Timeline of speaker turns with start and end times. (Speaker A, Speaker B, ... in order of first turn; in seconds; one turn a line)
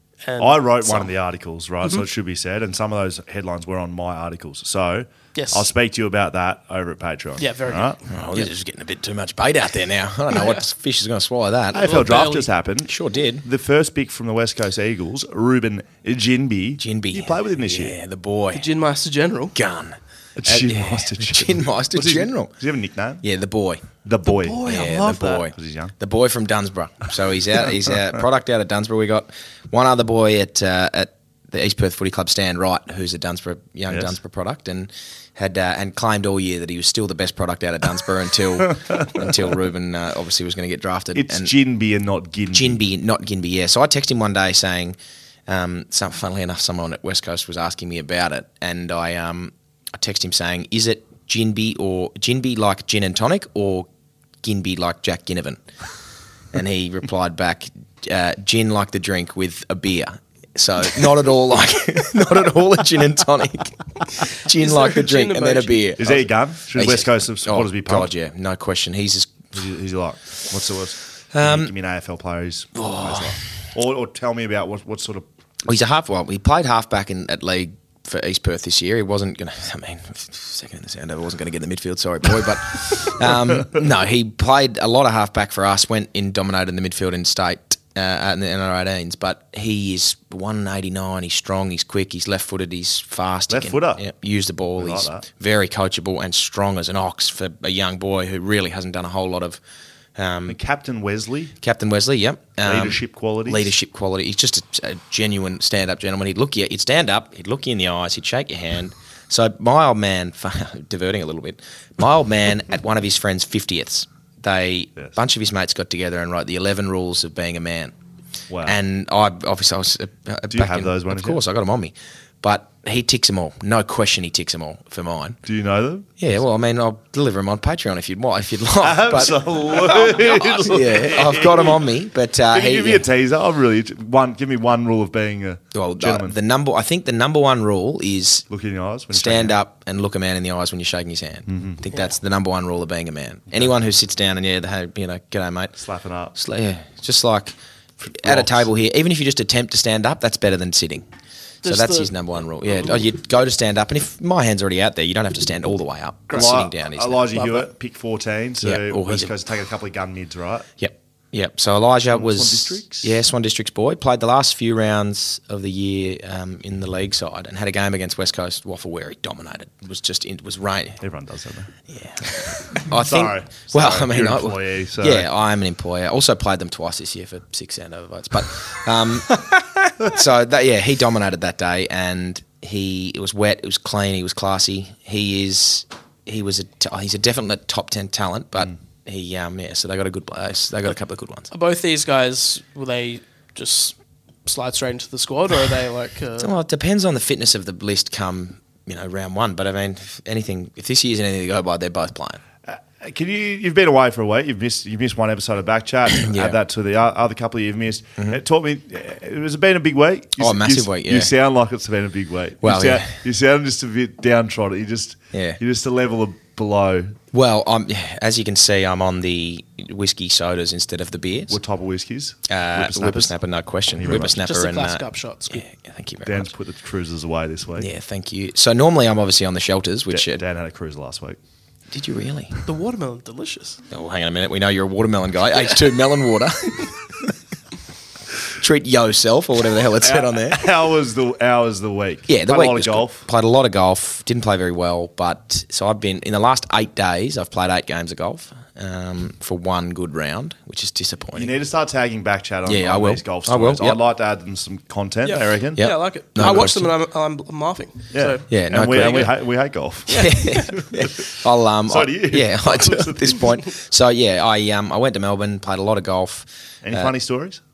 Speaker A: 0.2-1.1
Speaker B: 0.4-8.0
Speaker A: 5.3-5.7
Speaker A: 7.4-8.5
Speaker C: 8.1-12.0
Speaker A: 10.3-10.6
Speaker B: 11.7-18.0
Speaker A: 11.8-12.5
Speaker C: 12.9-13.4
Speaker C: 16.8-18.7
Speaker A: 18.5-19.6
Speaker C: 19.6-22.5
Speaker B: 20.4-23.2
Speaker C: 23.2-23.9
Speaker B: 24.1-25.9
Speaker A: 24.3-25.4
Speaker C: 24.6-41.5
Speaker B: 33.9-34.2
Speaker B: 41.1-42.8
Speaker C: 42.5-53.9
Speaker C: 54.4-55.6
Speaker C: 56.5-69.5
Speaker A: 64.6-66.0
Speaker B: 66.0-68.1
Speaker B: 69.5-75.2
Speaker C: 71.3-71.7
Speaker C: 72.8-73.4
Speaker C: 75.7-99.6
Speaker B: 93.5-94.0
Speaker B: 94.8-95.2
Speaker C: 100.2-100.6
Speaker B: 100.5-101.5
Speaker C: 101.6-117.9
Speaker B: 102.6-103.7
Speaker B: 118.5-118.8
Speaker C: 118.7-125.4
Speaker B: 120.5-121.4
Speaker B: 125.5-126.1
Speaker C: 126.2-133.1
Speaker B: 128.8-131.9
Speaker B: 132.5-136.3
Speaker C: 135.7-138.5
Speaker B: 138.5-139.6
Speaker C: 139.1-145.8
Speaker B: 141.5-141.8
Speaker B: 145.8-146.3
Speaker C: 146.3-151.1
Speaker B: 148.0-148.7
Speaker A: 151.6-152.1
Speaker C: 151.6-157.3
Speaker B: 156.3-160.7
Speaker A: 157.3-157.7
Speaker C: 158.6-159.3
Speaker C: 160.8-171.0
Speaker B: 162.1-163.2
Speaker B: 171.0-171.7
Speaker C: 171.9-179.5
Speaker B: 172.7-175.3
Speaker C: 180.0-191.5
Speaker A: 191.5-196.5
Speaker C: 196.4-202.4
Speaker B: 202.7-217.2
Speaker C: 206.2-206.6
Speaker C: 210.4-211.3
Speaker C: 212.6-213.1
Speaker C: 215.3-215.6
Speaker C: 217.3-221.6
Speaker B: 221.5-223.3
Speaker C: 222.5-226.5
Speaker B: 223.9-224.4
Speaker A: 224.1-225.7
Speaker B: 226.2-227.9
Speaker C: 227.8-230.4
Speaker B: 230.1-231.4
Speaker C: 231.9-232.6
Speaker A: 232.7-233.8
Speaker C: 233.9-237.3
Speaker C: 238.6-240.7
Speaker B: 240.0-243.2
Speaker C: 242.3-251.5
Speaker B: 251.3-255.8
Speaker C: 252.7-254.0
Speaker A: 255.2-259.3
Speaker C: 255.8-256.9
Speaker B: 258.1-261.3
Speaker C: 258.5-259.4
Speaker A: 260.1-260.7
Speaker C: 260.1-267.1
Speaker B: 261.9-263.5
Speaker B: 266.8-267.6